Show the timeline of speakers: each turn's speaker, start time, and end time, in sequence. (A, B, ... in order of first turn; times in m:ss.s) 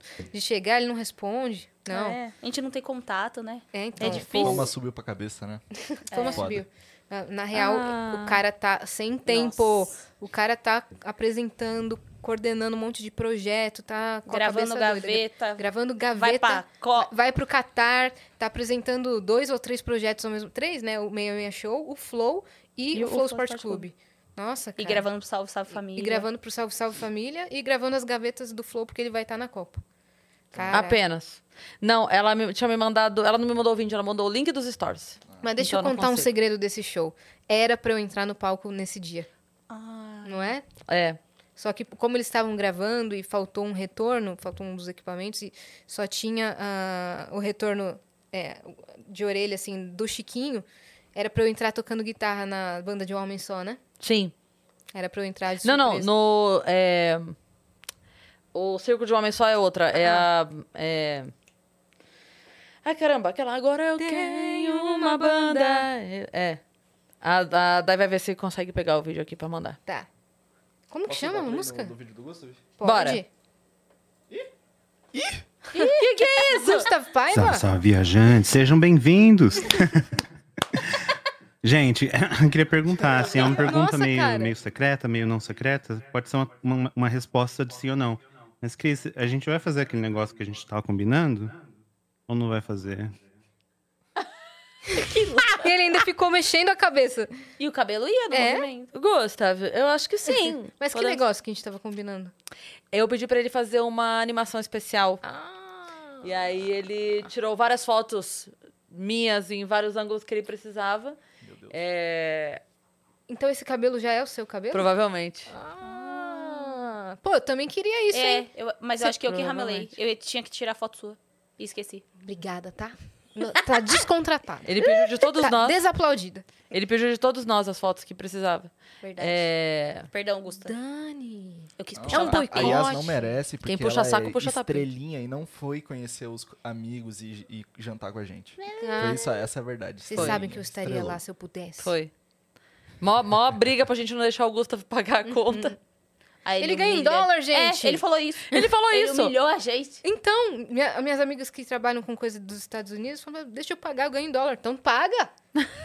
0:00.3-0:02.2 A
0:01.9-0:04.7 B
0:03.7-0:04.7 A
0:04.0-0:05.6 C
0:05.9-0:25.1 A
0:06.1-0:06.5 B
0:06.3-0:06.6 C
0:07.5-0:08.4 D
0:09.3-0:09.9 B
0:14.3-0:17.1 B
0:22.9-0:23.8 B
0:24.8-0:26.3 B
0:25.9-0:29.8 A
0:30.5-0:31.0 A
0:30.6-0:30.8 C
0:30.7-0:36.3 D
0:35.4-0:39.3 A
0:39.7-0:40.5 B
0:40.2-0:40.6 A
0:40.9-0:41.2 D
0:41.6-0:53.8 A
0:54.0-0:54.3 D
0:54.9-0:56.1 A
0:55.6-0:57.4 D
0:58.5-1:01.3 D
0:59.9-1:00.3 A
1:02.8-1:06.6 D
1:04.0-1:05.8 A
1:07.2-1:09.8 D
1:10.9-1:11.9 A
1:11.1-1:12.6 C
1:12.8-1:13.3 A
1:12.8-1:13.2 D
1:15.1-1:15.4 C
1:15.7-1:17.7 A
1:15.7-1:16.9 D
1:17.3-1:20.9 E
1:21.6-1:31.6 E
1:23.0-1:23.7 C
1:23.1-1:24.6 A
1:32.3-1:33.1 E
1:34.9-1:35.6 D
1:35.6-1:37.3 A
1:37.6-1:38.9 B
1:38.3-1:38.7 A
1:38.9-1:41.2 D
1:40.3-1:42.3 A
1:42.9-1:45.2 D
1:45.2-1:46.3 A
1:46.2-1:51.2 D
1:51.4-1:51.8 C
1:51.7-1:52.6 D
1:53.3-1:54.9 A
1:54.7-1:55.5 D
1:55.5-1:58.5 A
1:55.8-1:56.8 B
1:58.1-2:02.0 B
1:59.0-1:59.9 D
2:02.2-2:06.4 A
2:04.6-2:05.8 D
2:06.7-2:10.1 D
2:09.0-2:09.5 B
2:10.1-2:10.7 B
2:10.6-2:13.4 A
2:11.8-2:13.0 B
2:12.0-2:21.2 C
2:13.6-2:14.9 D
2:18.6-2:19.3 B
2:18.8-2:19.2 A
2:20.1-2:21.9 A
2:20.2-2:20.4 D
2:21.8-2:22.1 D
2:23.0-2:25.7 D
2:25.3-2:25.8 A
2:26.4-2:30.0 B
2:26.6-2:28.0 A
2:28.5-2:29.3 D
2:30.0-2:35.3 A